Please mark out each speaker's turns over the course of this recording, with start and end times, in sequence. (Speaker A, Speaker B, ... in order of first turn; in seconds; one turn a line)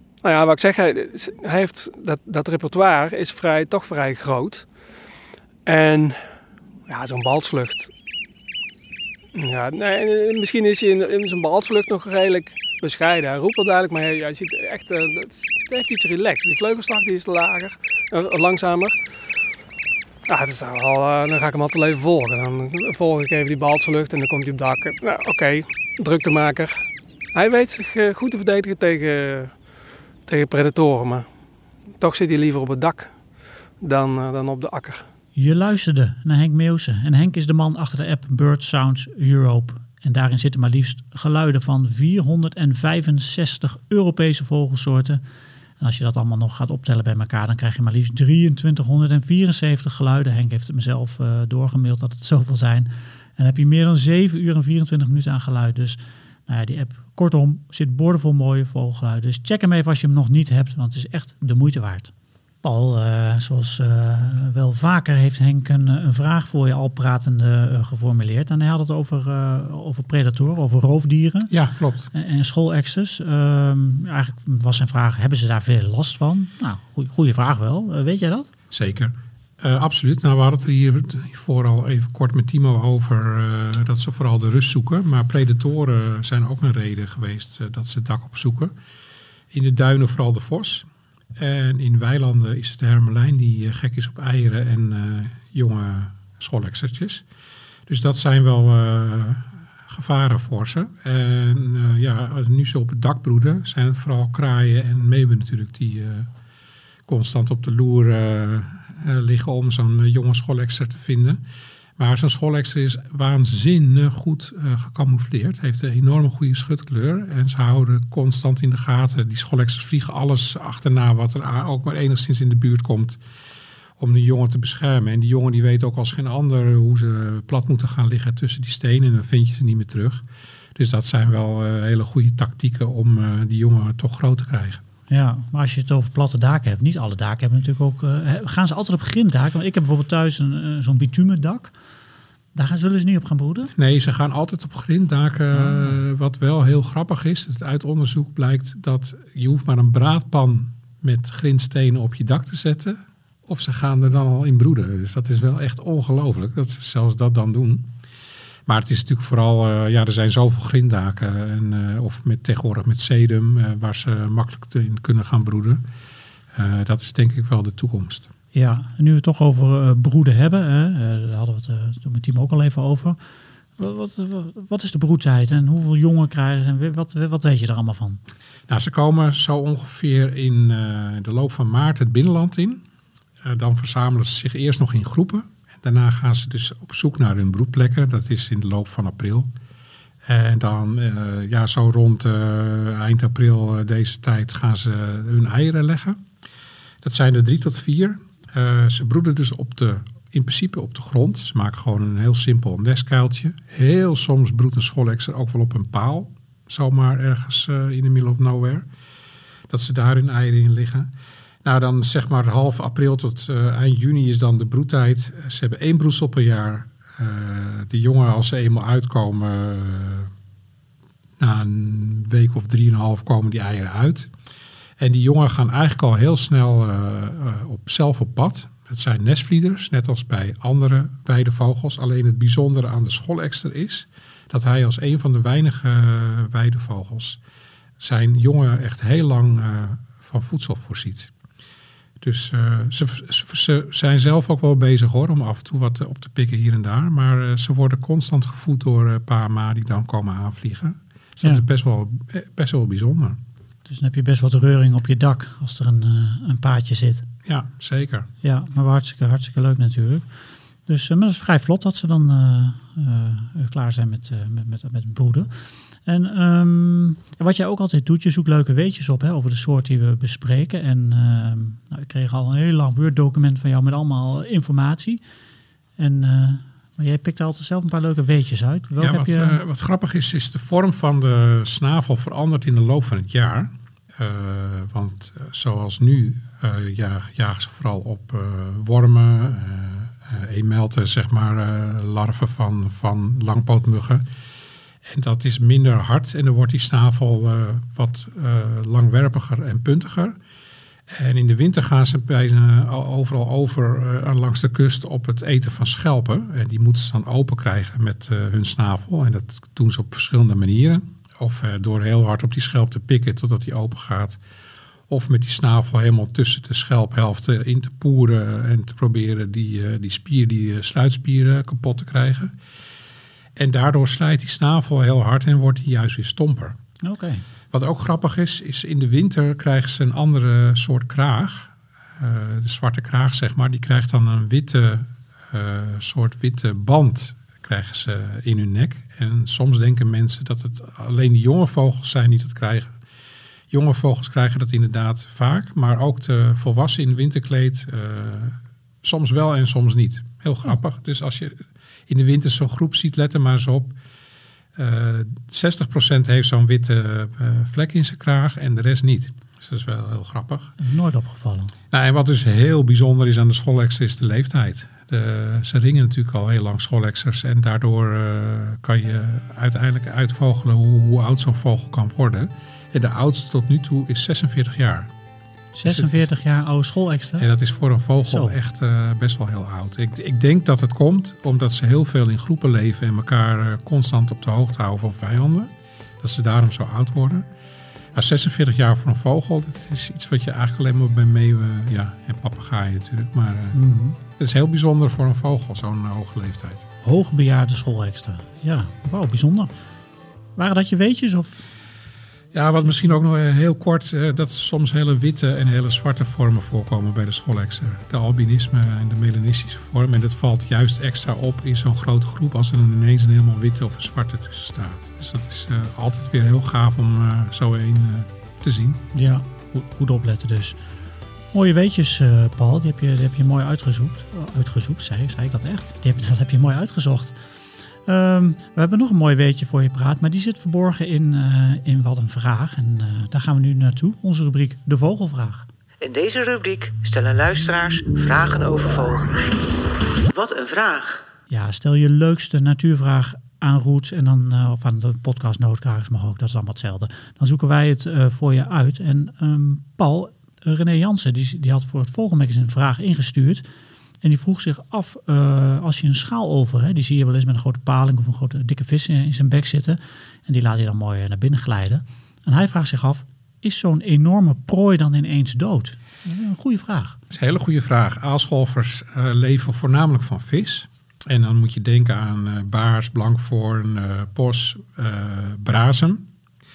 Speaker A: 0.2-4.7
Speaker A: 5.7-6.2
Speaker A: 6.9-7.9
Speaker A: 9.3-19.0
Speaker A: 20.3-26.8
Speaker A: 27.3-29.6
Speaker A: 30.3-31.3
Speaker A: 31.9-33.2
Speaker A: 33.8-35.1
Speaker B: 35.4-45.2
Speaker B: 45.8-62.1
Speaker B: 62.6-71.5
Speaker C: 71.5-72.1
Speaker B: 72.1-78.5
Speaker C: 78.7-88.7
Speaker C: 89.5-97.2
Speaker C: 97.9-106.3
Speaker C: 107.1-111.4
Speaker C: 112.0-123.2
Speaker C: 124.0-130.2
Speaker C: 130.8-134.8
Speaker B: 135.1-141.7
Speaker B: 142.5-143.7
Speaker C: 143.8-157.9
Speaker B: 145.5-146.0
Speaker C: 158.7-165.8
Speaker C: 166.5-168.3
Speaker B: 168.5-173.2
Speaker B: 173.8-178.2
Speaker C: 178.7-182.8
Speaker C: 183.4-189.5
Speaker C: 190.2-196.2
Speaker C: 197.0-208.9
Speaker C: 209.7-211.1
Speaker C: 211.6-220.3
Speaker C: 221.4-224.3
Speaker C: 225.0-237.4
Speaker C: 238.0-241.3
Speaker C: 242.2-253.4
Speaker B: 253.9-257.3
Speaker C: 257.4-258.3
Speaker B: 258.4-260.2
Speaker B: 260.9-265.5
Speaker B: 266.1-275.2
Speaker B: 276.0-279.6
Speaker C: 279.0-294.2
Speaker C: 295.1-300.4
Speaker C: 301.1-314.4
Speaker C: 315.1-322.5
Speaker C: 323.6-326.8
Speaker B: 327.0-327.4
Speaker C: 327.7-342.9
Speaker C: 343.7-353.9
Speaker C: 354.8-360.8
Speaker B: 360.8-361.7
Speaker C: 361.9-375.1
Speaker B: 375.7-377.5
Speaker C: 375.9-376.3
Speaker C: 377.4-387.5
Speaker B: 378.3-378.6
Speaker C: 388.1-396.8
Speaker B: 393.7-394.2
Speaker B: 397.0-399.7
Speaker B: 400.6-401.7
Speaker C: 402.5-419.0
Speaker B: 419.1-420.8
Speaker B: 421.5-427.4
Speaker B: 428.1-435.7
Speaker D: 436.0-439.7
Speaker D: 440.2-441.2
Speaker B: 441.5-453.6
Speaker B: 454.2-467.2
Speaker C: 467.3-476.3